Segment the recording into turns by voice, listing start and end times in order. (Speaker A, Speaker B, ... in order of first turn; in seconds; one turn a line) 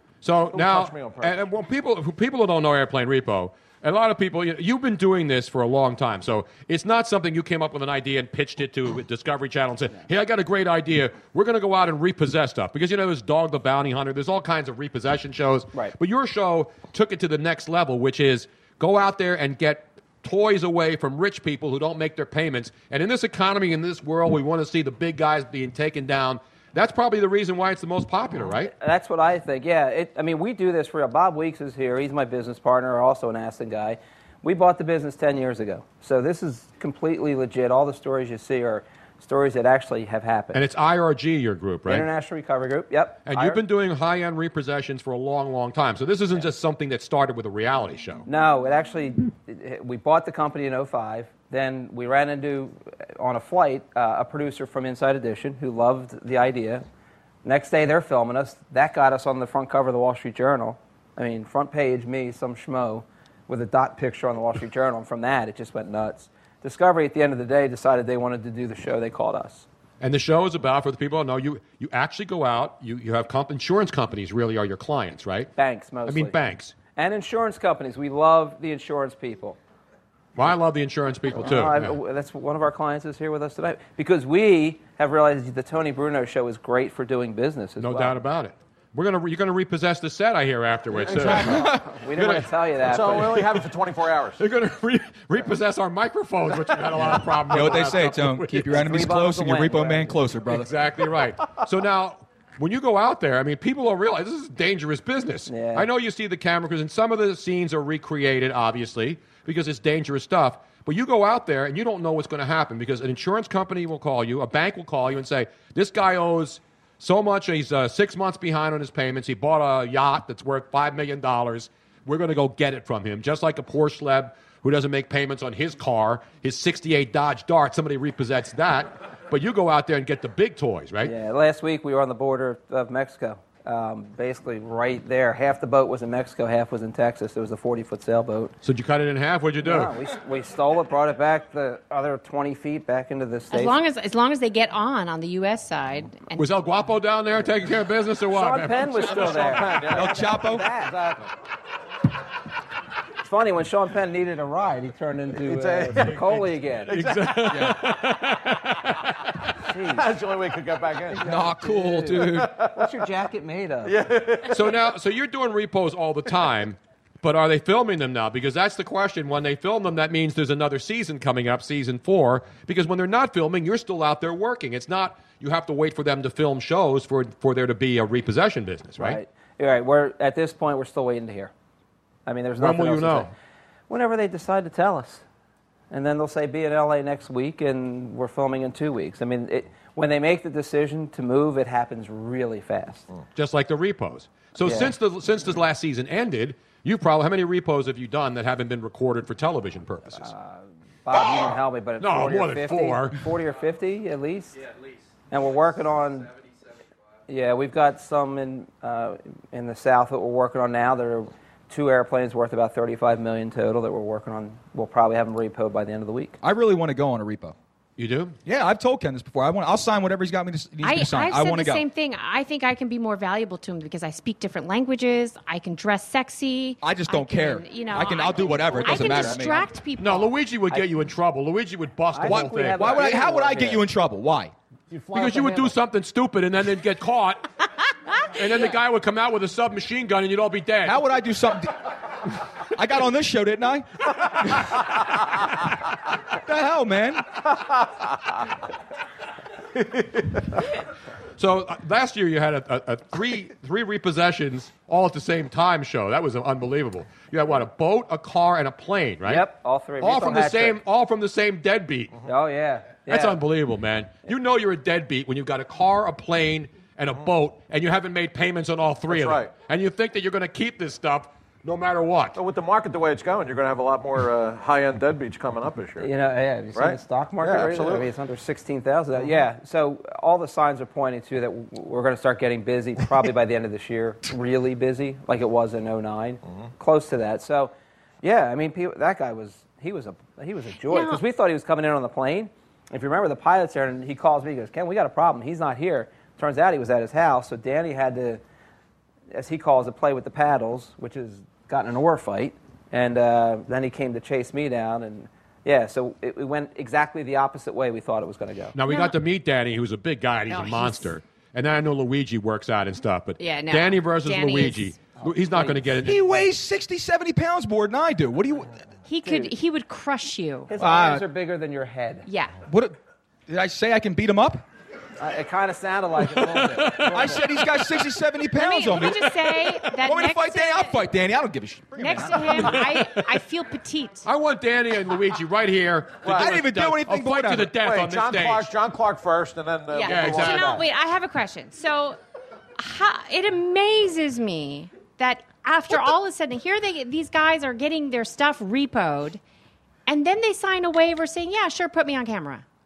Speaker A: 0.2-28.7
Speaker B: 0.5-1.3
Speaker C: 28.7-40.6
Speaker A: 40.5-42.1
Speaker C: 41.9-43.6
Speaker A: 43.2-48.2
Speaker C: 48.2-56.8
Speaker C: 57.4-69.7
Speaker A: 70.0-75.5
Speaker C: 75.6-76.3
Speaker A: 76.0-76.7
Speaker C: 77.0-79.6
Speaker A: 80.3-81.9
Speaker C: 81.3-88.2
Speaker A: 87.8-92.5
Speaker C: 91.1-93.6
Speaker D: 91.2-91.8
Speaker B: 92.8-94.4
Speaker A: 94.4-98.7
Speaker D: 97.5-100.7
Speaker C: 98.7-100.2
Speaker A: 100.5-131.1
Speaker C: 105.5-105.9
Speaker C: 131.0-138.5
Speaker A: 138.6-139.9
Speaker C: 139.6-143.8
Speaker E: 143.5-146.5
Speaker A: 146.3-149.6
Speaker C: 148.3-151.2
Speaker B: 149.0-151.2
Speaker D: 149.9-150.6
Speaker C: 153.2-157.0
Speaker B: 155.3-157.6
Speaker A: 156.9-159.0
Speaker D: 157.5-157.8
Speaker C: 159.7-160.1
Speaker B: 159.8-161.3
Speaker C: 161.1-164.0
Speaker D: 161.2-162.5
Speaker B: 162.2-162.9
Speaker B: 163.8-164.8
Speaker A: 164.5-179.2
Speaker C: 179.0-181.5
Speaker C: 182.2-183.3
Speaker A: 182.6-183.3
Speaker C: 183.9-185.2
Speaker C: 185.9-193.1
Speaker A: 193.3-200.3
Speaker C: 194.6-194.9
Speaker C: 200.2-204.6
Speaker A: 202.0-203.2
Speaker C: 205.3-206.3
Speaker C: 207.3-216.4
Speaker D: 216.4-217.5
Speaker A: 218.0-218.4
Speaker D: 218.4-221.8
Speaker E: 220.8-230.3
Speaker D: 226.8-229.6
Speaker C: 228.8-229.5
Speaker A: 230.0-233.0
Speaker C: 232.1-233.8
Speaker D: 232.2-234.5
Speaker B: 234.9-235.7
Speaker A: 235.1-237.5
Speaker A: 238.3-241.0
Speaker D: 240.8-241.8
Speaker D: 242.7-244.7
Speaker D: 246.4-247.2
Speaker A: 251.4-259.4
Speaker C: 259.2-260.8
Speaker A: 260.0-262.1
Speaker C: 262.2-263.4
Speaker A: 263.1-272.4
Speaker B: 269.1-269.5
Speaker B: 272.3-276.1
Speaker C: 276.0-298.4
Speaker B: 276.7-278.1
Speaker E: 290.9-291.2
Speaker C: 299.3-308.8
Speaker A: 308.7-316.2
Speaker E: 308.9-309.1
Speaker E: 310.5-311.1
Speaker E: 313.4-314.9
Speaker C: 315.2-315.9
Speaker D: 316.0-318.8
Speaker E: 319.1-320.7
Speaker C: 319.2-319.5
Speaker C: 320.7-322.2
Speaker D: 320.8-321.2
Speaker E: 322.2-322.6
Speaker D: 322.6-322.9
Speaker D: 323.5-324.6
Speaker C: 325.2-327.4
Speaker D: 327.0-332.8
Speaker E: 328.6-331.0
Speaker E: 332.0-334.2
Speaker A: 332.6-333.3
Speaker A: 334.2-338.7
Speaker B: 336.2-336.5
Speaker D: 336.3-337.7
Speaker B: 337.8-340.4
Speaker E: 339.9-342.2
Speaker A: 340.0-340.8
Speaker C: 340.2-340.8
Speaker E: 342.8-349.4
Speaker E: 350.1-352.6